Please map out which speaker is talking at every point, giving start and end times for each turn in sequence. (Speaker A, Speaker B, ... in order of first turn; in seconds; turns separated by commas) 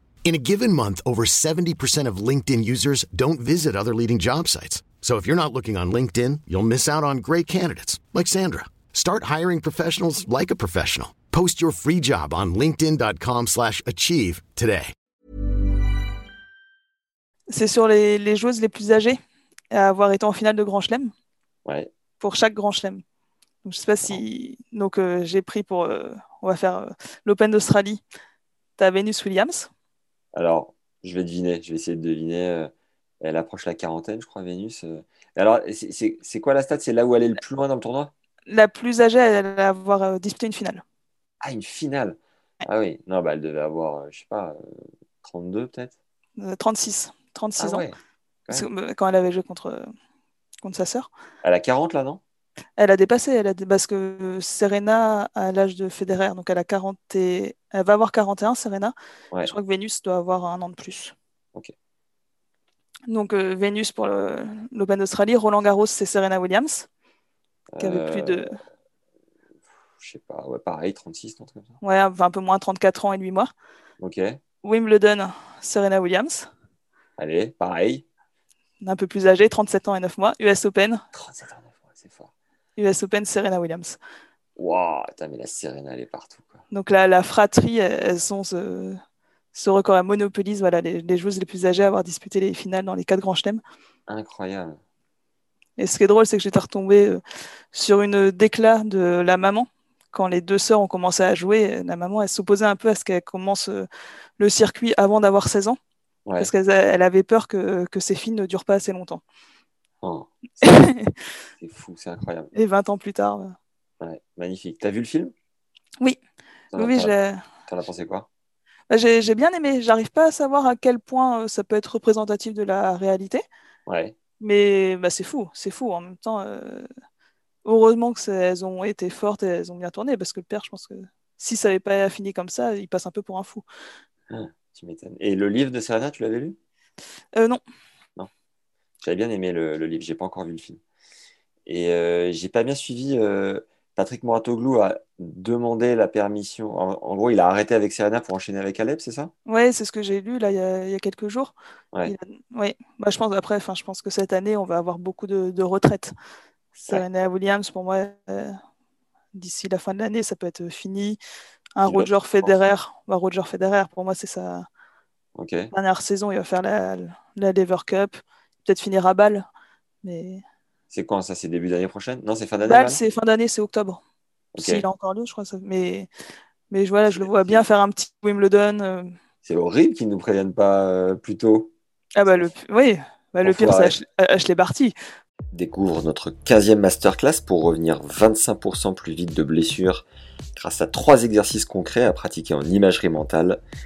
Speaker A: 0.2-14.9, Speaker B: 17.5-19.2, Speaker B: 19.7-21.1, Speaker B: 22.2-23.0, Speaker B: 23.6-28.0, Speaker B: 28.8-29.7, Speaker C: 30.3-38.1, Speaker B: 38.5-40.8, Speaker C: 41.4-45.9, Speaker B: 46.4-47.8, Speaker C: 47.6-48.0, Speaker B: 48.5-49.9, Speaker B: 50.6-51.1, Speaker C: 51.4-52.2, Speaker B: 52.8-61.1, Speaker B: 63.1-66.9, Speaker C: 67.7-68.5, Speaker B: 67.8-68.6, Speaker C: 70.0-71.8, Speaker B: 71.8-73.5, Speaker C: 74.0-74.4, Speaker B: 74.6-76.5, Speaker C: 77.2-78.0, Speaker B: 78.8-81.0, Speaker C: 81.1-82.3, Speaker B: 82.8-84.0, Speaker C: 84.6-86.6, Speaker B: 86.7-89.0, Speaker B: 89.5-93.6, Speaker C: 94.1-94.8, Speaker B: 95.8-97.2, Speaker B: 97.7-103.9, Speaker B: 104.4-105.8, Speaker C: 106.2-106.5, Speaker B: 106.4-109.2, Speaker C: 110.0-110.8, Speaker B: 110.6-111.1, Speaker C: 111.6-112.5, Speaker B: 112.5-113.5, Speaker C: 114.0-115.3, Speaker C: 116.7-117.1, Speaker B: 116.7-117.4, Speaker C: 117.7-118.3, Speaker B: 118.9-123.4, Speaker C: 123.9-124.1, Speaker B: 124.4-126.9, Speaker B: 127.6-133.7, Speaker C: 134.3-136.6, Speaker B: 137.3-137.6, Speaker C: 139.0-140.8, Speaker C: 141.7-149.3, Speaker B: 149.4-156.1, Speaker B: 156.8-158.5, Speaker B: 159.3-161.2, Speaker B: 161.8-164.7, Speaker C: 161.8-162.6, Speaker C: 165.3-165.7, Speaker B: 165.7-169.4, Speaker B: 170.0-170.4, Speaker C: 170.9-173.0, Speaker B: 172.6-174.0, Speaker C: 174.5-174.8, Speaker B: 174.6-176.1, Speaker B: 176.7-179.1, Speaker C: 177.2-177.6, Speaker C: 179.4-181.7, Speaker B: 182.2-184.9, Speaker C: 182.2-182.5, Speaker C: 183.4-183.9, Speaker C: 185.5-193.6